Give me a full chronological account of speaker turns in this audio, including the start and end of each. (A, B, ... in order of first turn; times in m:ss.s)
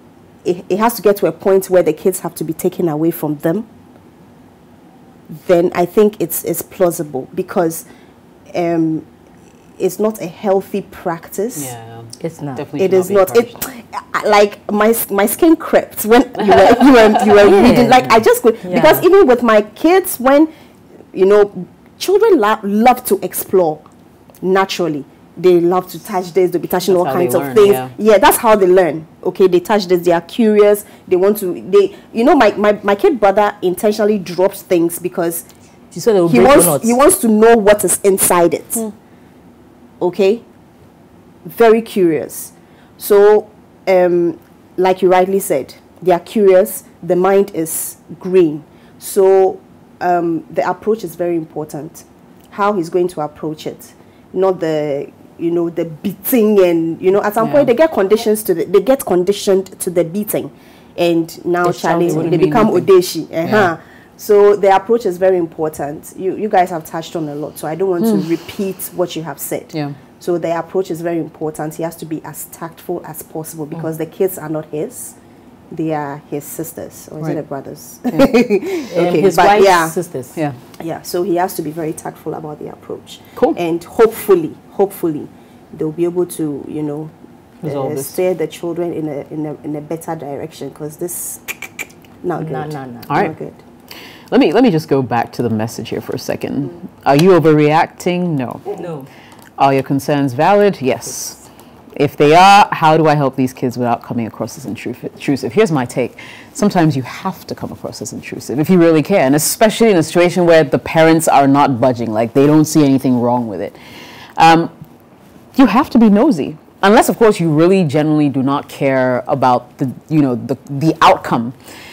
0:00.4-0:03.7 A
0:05.3-0:07.9 A
0:08.5-0:09.1 A
0:09.8-0:11.7 A
0:11.6-0:13.6 B
0:12.2-0:12.7 C
0:12.8-0:20.5 A
0:16.4-0:17.3 B
0:17.4-0:18.1 C
0:18.6-0:19.0 C
0:21.1-0:23.8 A
0:24.4-0:35.4 A
0:26.9-0:27.9 B
0:35.9-0:37.0 C
0:36.3-0:38.9 A
0:40.0-0:40.4 A
0:41.4-1:15.2 A
0:57.4-0:57.7 B
1:01.6-1:02.9 B
1:02.1-1:02.4 C
1:03.4-1:03.7 B
1:08.0-1:08.3 B
1:15.7-1:20.0 A
1:18.1-1:18.4 B
1:18.9-1:20.4 C
1:20.8-1:31.6 A
1:27.7-1:28.1 B
1:32.2-1:33.6 A
1:32.4-1:33.1 C
1:33.1-1:33.4 B
1:34.3-1:38.6 B
1:38.7-1:39.1 C
1:39.6-1:41.4 B
1:42.0-1:53.8 B
1:54.4-1:54.7 B
1:55.6-2:01.6 B